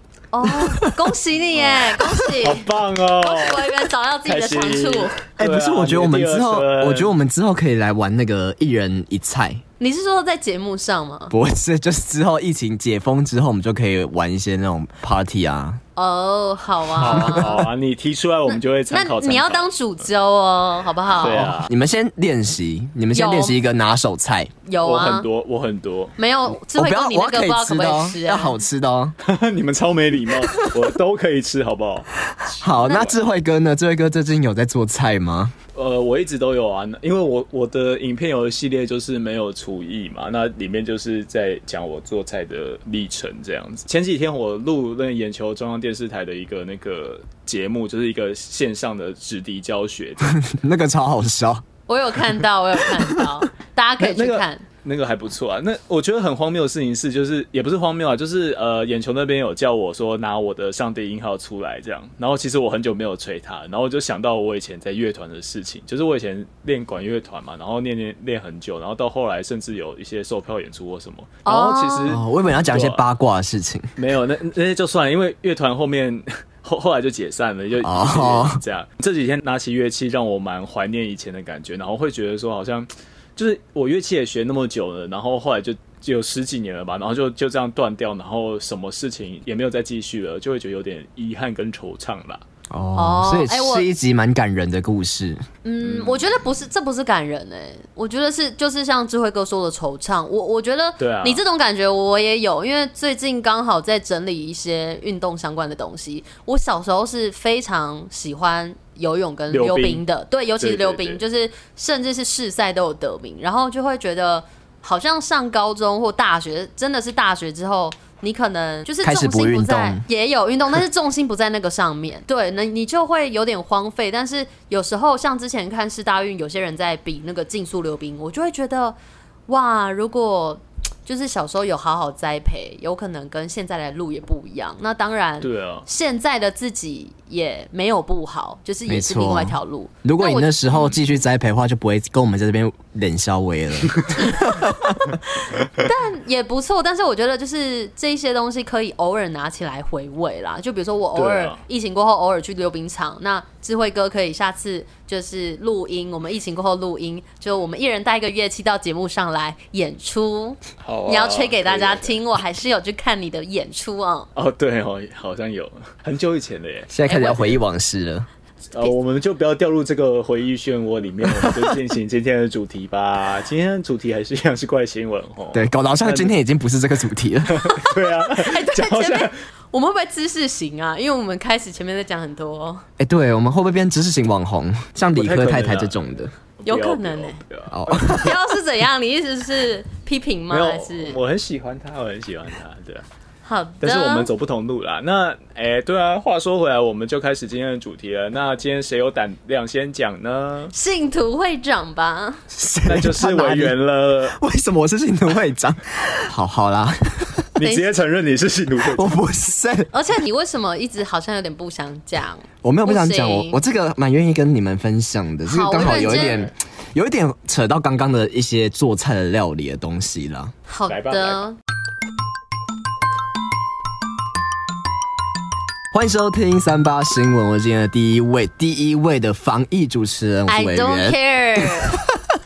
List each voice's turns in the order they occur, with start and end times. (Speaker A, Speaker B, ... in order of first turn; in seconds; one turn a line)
Speaker A: 0.3-2.7
Speaker B: 0.5-0.9
Speaker C: 1.6-7.1
Speaker A: 3.2-5.2
Speaker B: 5.4-9.6
Speaker A: 9.8-11.3
Speaker B: 11.3-15.8
Speaker A: 16.0-17.6
Speaker C: 17.0-19.7
Speaker A: 18.9-21.5
Speaker C: 21.2-21.7
Speaker B: 21.3-24.5
Speaker A: 23.1-23.6
Speaker A: 24.7-25.3
Speaker C: 24.8-26.1
Speaker A: 26.2-28.6
Speaker B: 26.7-29.1
Speaker C: 29.2-33.2
Speaker B: 32.6-35.5
Speaker C: 35.7-50.4
Speaker B: 50.4-51.6
Speaker A: 51.9-54.6
Speaker C: 54.0-73.0
Speaker A: 71.5-72.2
Speaker B: 72.1-73.9
Speaker C: 74.0-92.4
Speaker B: 77.8-78.6
Speaker B: 92.7-95.5
Speaker A: 93.0-93.9
Speaker A: 95.6-129.0
Speaker C: 95.8-96.4
Speaker C: 101.0-101.4
Speaker C: 109.5-110.0
Speaker C: 110.6-111.2
Speaker B: 119.0-120.0
Speaker A: 129.5-140.8
Speaker C: 135.4-135.9
Speaker B: 138.9-145.2
Speaker A: 145.7-164.3
Speaker C: 151.2-151.6
Speaker C: 160.8-162.2
Speaker C: 164.4-166.9
Speaker B: 166.9-168.3
Speaker A: 167.1-167.6
Speaker C: 168.7-176.3
Speaker B: 171.3-171.8
Speaker B: 175.5-178.0
Speaker C: 177.5-179.3
Speaker A: 178.2-182.8
Speaker B: 183.0-186.3
Speaker C: 185.2-188.2
Speaker A: 186.7-187.4
Speaker B: 187.7-188.4
Speaker A: 188.0-191.2
Speaker C: 190.5-193.1
Speaker A: 193.4-194.3
Speaker C: 193.8-200.7
Speaker A: 200.7-202.4
Speaker B: 202.5-203.8
Speaker C: 202.9-204.4
Speaker B: 204.3-207.5
Speaker C: 207.6-209.2
Speaker A: 207.6-207.9
Speaker B: 208.8-209.9
Speaker A: 209.9-213.6
Speaker B: 212.6-220.5
Speaker A: 215.5-216.5
Speaker A: 220.7-221.6
Speaker C: 220.9-221.4
Speaker B: 225.9-231.2
Speaker A: 230.5-232.0